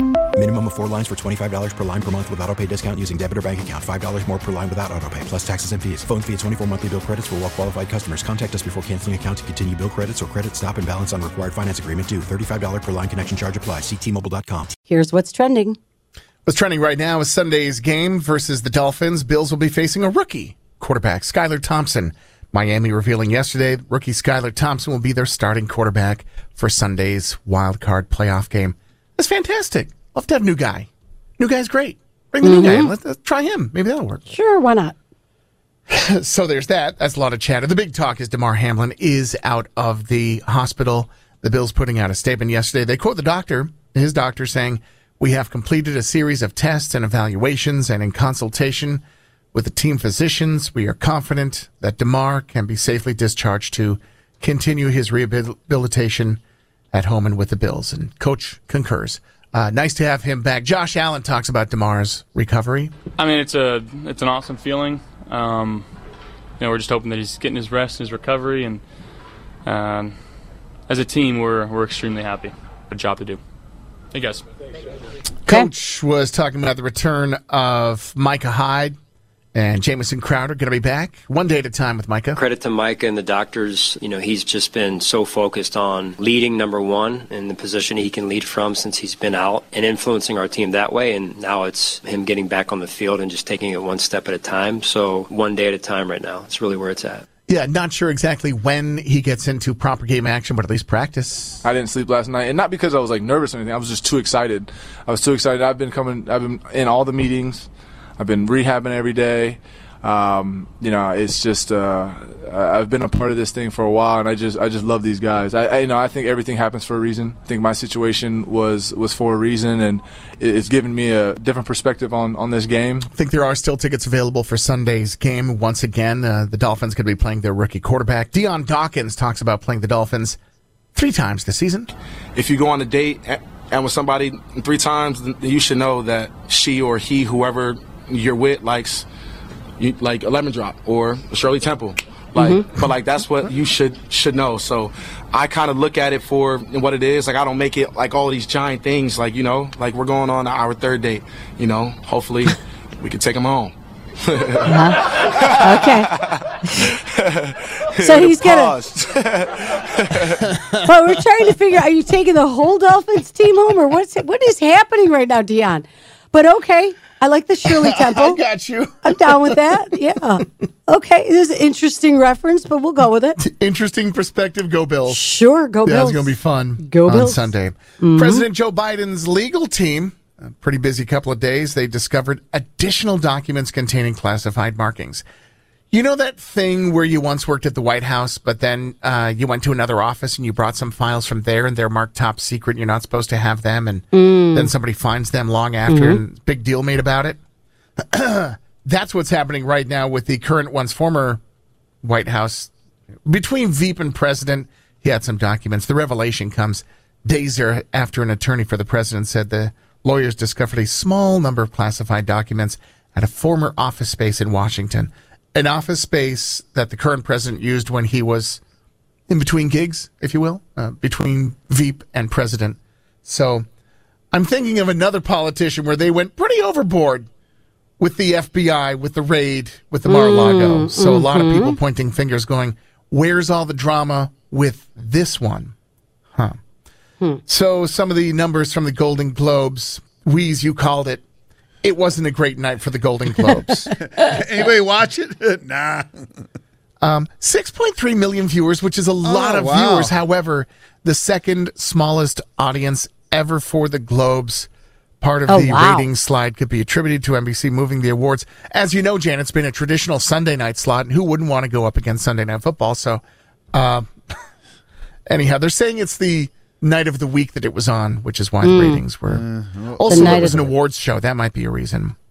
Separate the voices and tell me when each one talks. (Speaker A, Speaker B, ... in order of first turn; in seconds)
Speaker A: 0.3-14.8
Speaker B: 14.9-15.8, 32.4-32.9, 34.3-35.0, 154.7-155.0, 155.6-156.1, 158.0-158.8, 160.8-168.4, 169.0-173.4, 175.1-178.5, 194.1-194.7, 195.9-196.2, 230.1-231.8, 255.5-256.1, 268.6-269.1, 270.1-270.7
Speaker C: 16.5-34.3, 35.9-49.0, 49.5-56.4, 56.9-63.0, 75.5-79.0, 79.5-82.4, 97.5-101.6, 123.1-130.4, 130.9-131.9, 167.6-169.6, 173.4-175.2, 175.8-185.2, 185.9-197.4, 198.1-201.4, 202.0-202.7, 203.3-218.6, 219.3-223.7, 224.3-227.3, 228.0-235.7, 237.5-241.2, 241.8-243.9, 247.0-254.7, 255.2-263.2, 263.7-264.1, 265.3-272.2
Speaker D: 63.2-65.9, 66.6-68.8, 69.7-70.2, 70.9-73.4, 74.1-74.5
Speaker E: 82.4-97.2
Speaker F: 101.6-123.1
Speaker G: 132.3-139.1, 139.8-156.4, 157.2-160.5
Speaker H: 244.0-246.2, 249.2-250.2, 269.2-270.8